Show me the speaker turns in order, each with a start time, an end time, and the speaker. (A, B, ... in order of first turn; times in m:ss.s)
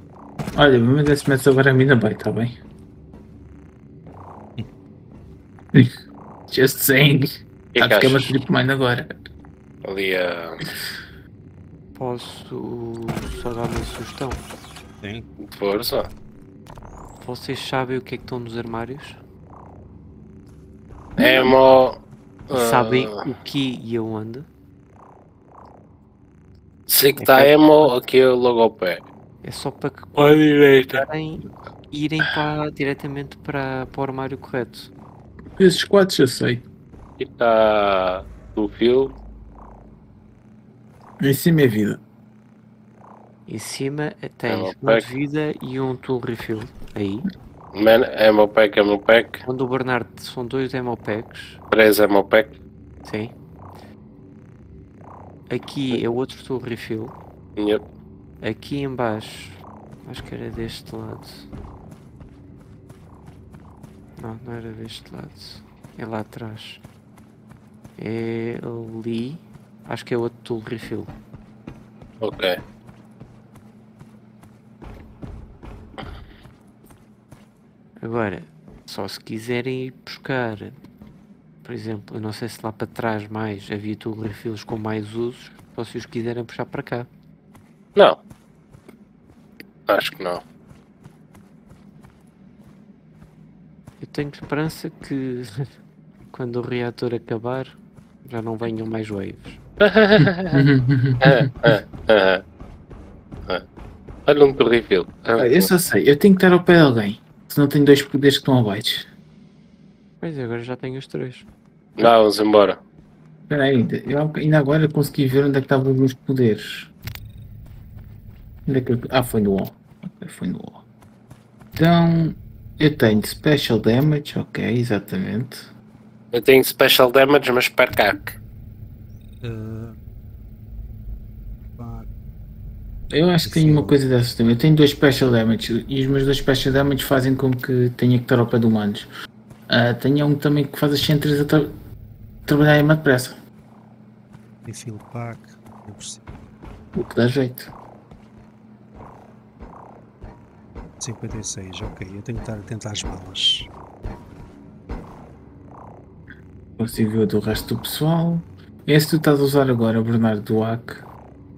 0:00.6-0:02.6 A
0:06.5-0:09.3 A
0:07.8-0:08.4 B
0:09.8-0:10.6 B
0:12.0-0:14.4 C
0:15.0-0:15.3 D
0:15.4-0:16.1 B
0:17.2-0:19.2 C
0:21.2-0:21.5 A
0:21.2-0:23.2 B
0:22.5-0:24.5 C
0:26.9-0:29.0 B
0:27.2-0:27.5 C
0:29.4-0:30.2 C
0:30.2-0:31.0 B
0:30.9-0:34.9 C
0:35.6-0:36.6 A
0:37.2-0:39.2 B
0:41.2-0:42.0 A
0:43.5-0:47.3 C
0:44.5-0:45.0 B
0:47.7-0:49.4 B
0:49.4-0:51.6 C
0:51.7-0:52.6 B
0:53.0-0:53.3 C
0:55.5-0:57.2 C
0:57.6-0:57.8 B
0:58.4-1:01.5 C
1:04.2-1:06.8 C
1:08.0-1:11.1 C
1:12.2-1:12.6 B
1:18.0-1:20.8 C
1:21.6-1:27.1 C
1:29.9-1:30.4 B
1:34.0-1:35.7 C
1:36.3-1:39.6 C
1:39.8-1:40.6 B
1:40.5-1:41.8 A
1:41.2-1:42.4 B
1:44.3-1:45.7 B
1:45.4-1:49.1 A
1:50.2-1:51.5 C
1:52.0-1:52.8 B
1:53.5-1:56.9 A
1:58.7-2:00.8 A
2:01.8-2:05.7 A
2:06.3-2:08.4 B
2:09.4-2:10.0 D
2:11.8-2:12.1 D
2:13.1-2:19.1 A
2:13.4-2:14.0 D
2:19.7-2:21.7 A
2:22.5-2:23.4 A
2:24.6-2:26.3 D
2:26.9-2:27.7 A
2:31.0-2:33.7 D
2:36.8-2:41.1 A